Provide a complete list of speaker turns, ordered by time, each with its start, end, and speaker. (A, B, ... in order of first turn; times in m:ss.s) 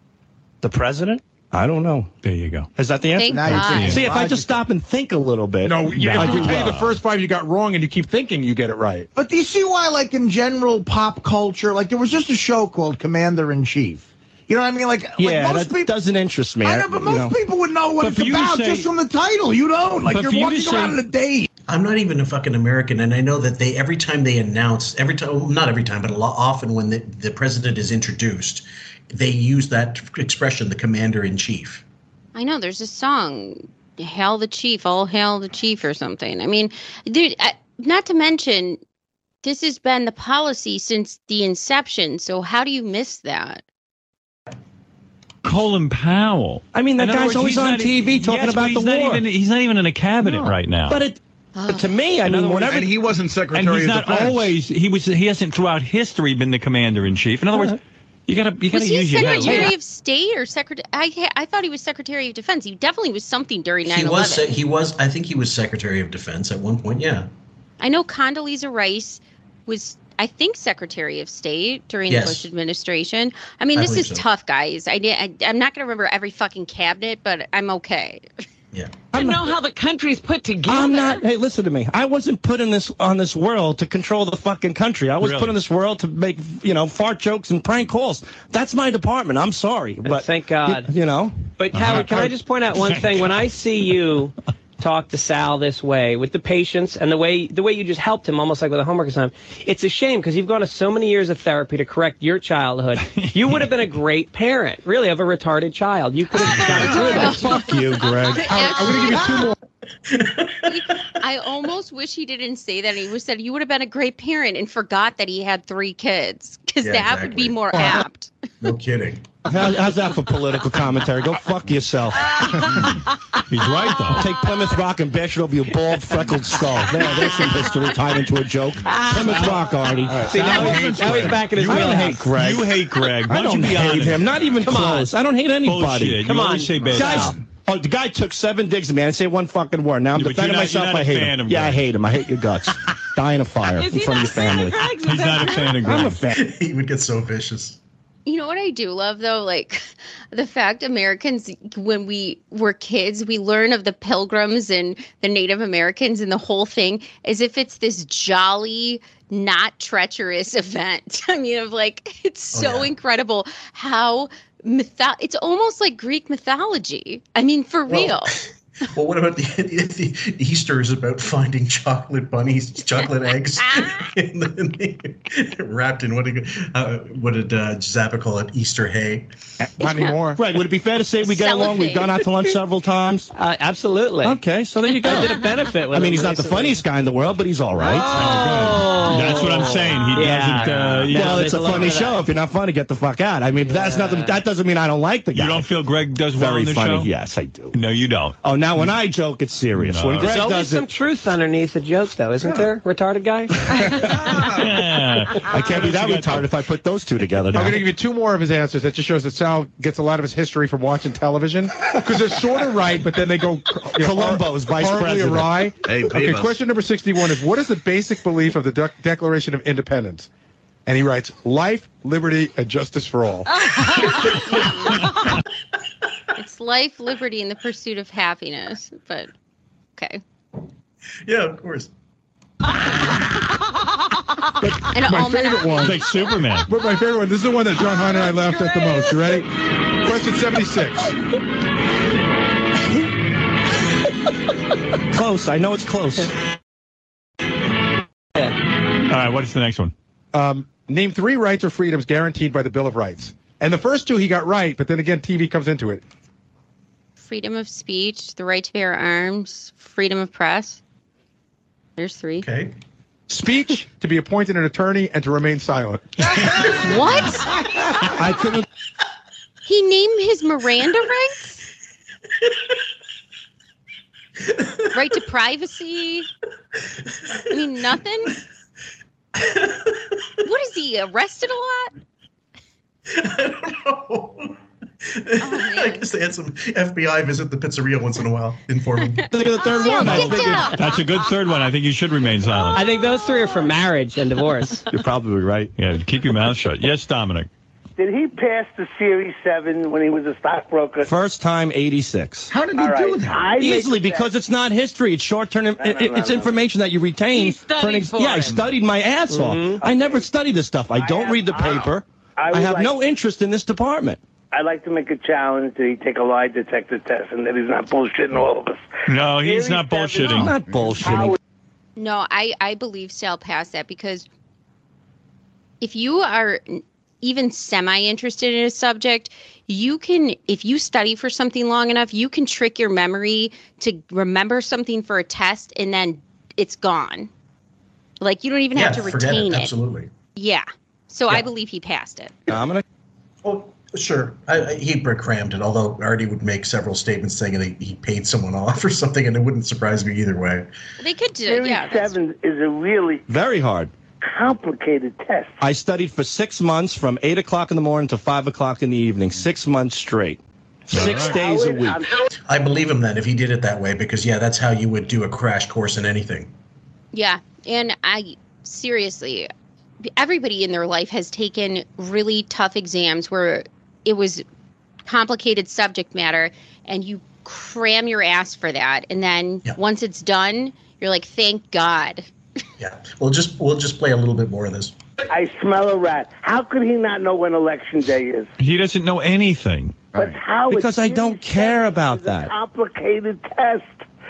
0:00.6-0:02.1 A
0:02.2-0:02.7 B
0:02.8-0:06.8 A
0:03.2-0:04.0 C
0:03.3-0:04.6 D
0:03.6-0:04.0 B
0:05.6-0:09.1 E
0:05.9-0:07.0 B
0:09.1-0:15.9 D
0:15.2-0:17.4 A
0:16.6-0:21.5 D
0:18.0-0:18.9 B
0:20.1-0:21.0 B
0:21.7-0:31.8 F
0:32.3-0:38.8 C
0:39.4-0:43.6 C
0:45.4-0:51.0 B
0:46.7-0:49.2 A
0:50.2-0:53.0 A
0:51.6-0:51.9 C
0:52.3-0:52.6 B
0:52.4-0:54.5 G
0:53.5-0:59.7 B
0:58.7-1:04.6 C
1:03.8-1:07.3 F
1:07.8-1:18.2 C
1:12.1-1:12.4 F
1:13.8-1:14.2 F
1:18.7-1:19.0 F
1:19.1-1:19.5 A
1:19.1-1:21.2 H
1:20.6-1:31.6 A
1:25.2-1:25.6 B
1:30.0-1:30.9 I
1:31.6-1:47.5 I
1:31.7-1:33.3 B
1:43.0-1:43.8 B
1:46.3-1:48.9 A
1:46.9-1:49.5 C
1:48.5-1:49.5 E
1:50.1-1:50.6 F
1:50.6-1:58.3 C
1:56.8-1:57.8 F
1:57.7-1:58.0 E
1:58.6-1:59.3 F
1:59.4-2:02.8 A
2:03.5-2:04.3 B
2:04.0-2:26.4 A
2:09.2-2:09.6 B
2:10.1-2:14.4 B
2:10.2-2:12.2 I
2:14.6-2:15.1 I
2:15.6-2:17.4 B
2:16.2-2:17.2 I
2:20.1-2:21.9 B
2:23.8-2:25.4 H
2:25.0-2:26.2 B
2:26.3-2:27.8 F
2:28.2-2:48.4 C
2:42.5-2:42.9 F
2:47.9-2:59.3 F
2:59.6-3:00.4 E
2:59.8-3:00.1 C
3:00.4-3:03.3 A
3:01.2-3:02.3 C
3:03.3-3:04.4 I
3:04.2-3:08.6 A
3:05.0-3:06.8 I
3:07.8-3:12.2 I
3:08.2-3:12.0 B
3:08.2-3:09.0 E
3:11.1-3:15.7 A
3:13.7-3:14.4 I
3:15.3-3:17.1 B
3:16.3-3:17.8 A
3:17.7-3:18.9 B
3:18.4-3:20.9 A
3:19.7-3:20.5 B
3:20.2-3:24.0 I
3:24.4-3:26.5 B
3:25.4-3:27.8 A
3:27.5-3:40.3 E
3:34.0-3:35.7 A
3:35.8-3:36.6 G
3:40.8-3:43.5 E
3:44.5-3:45.1 C
3:46.4-3:49.3 C
3:51.2-3:51.9 F
3:54.6-3:56.0 E
3:54.9-3:56.3 C
3:55.8-3:56.7 B
3:56.6-4:01.2 E
4:05.1-4:06.3 A
4:09.1-4:09.9 B
4:10.3-4:16.0 E
4:17.2-4:20.8 C
4:22.0-4:22.4 C
4:22.4-4:22.7 F
4:23.3-4:26.2 E
4:26.8-4:27.5 C
4:28.1-4:28.6 A
4:29.6-4:31.6 C
4:34.9-4:36.3 C
4:37.5-4:38.3 C
4:39.4-4:40.1 F
4:40.4-4:41.9 C
4:43.1-4:49.4 F
4:45.4-4:46.1 C
4:49.2-4:50.8 A
4:49.6-4:51.3 C
4:50.0-4:52.9 B
4:52.8-4:54.8 I
4:54.9-4:55.7 A
4:55.8-4:57.5 B
4:58.0-5:01.1 J
5:01.0-5:02.5 A
5:02.5-5:03.5 D
5:02.7-5:04.3 J
5:03.6-5:14.2 A
5:05.8-5:06.6 J
5:07.3-5:08.7 H
5:09.3-5:09.8 I
5:09.8-5:10.2 J
5:10.9-5:12.9 J
5:14.5-5:21.4 J
5:19.1-5:20.5 B
5:20.2-5:21.4 A
5:22.0-5:24.2 C
5:25.8-5:37.3 C
5:38.2-5:39.7 C
5:38.7-5:40.1 F
5:40.3-5:42.3 C
5:42.5-5:42.8 A
5:43.4-5:50.7 F
5:51.0-5:52.2 C
5:51.4-5:53.2 J
5:53.3-5:53.9 A
5:54.2-5:55.6 J
5:55.6-6:02.0 A
6:00.9-6:01.4 B
6:01.0-6:02.2 J
6:02.5-6:06.5 F
6:07.1-6:09.5 C
6:10.0-6:14.4 C
6:15.0-6:22.2 C
6:22.8-6:24.9 F
6:25.3-6:28.5 J
6:28.6-6:30.1 B
6:30.1-6:34.0 J
6:30.7-6:32.5 A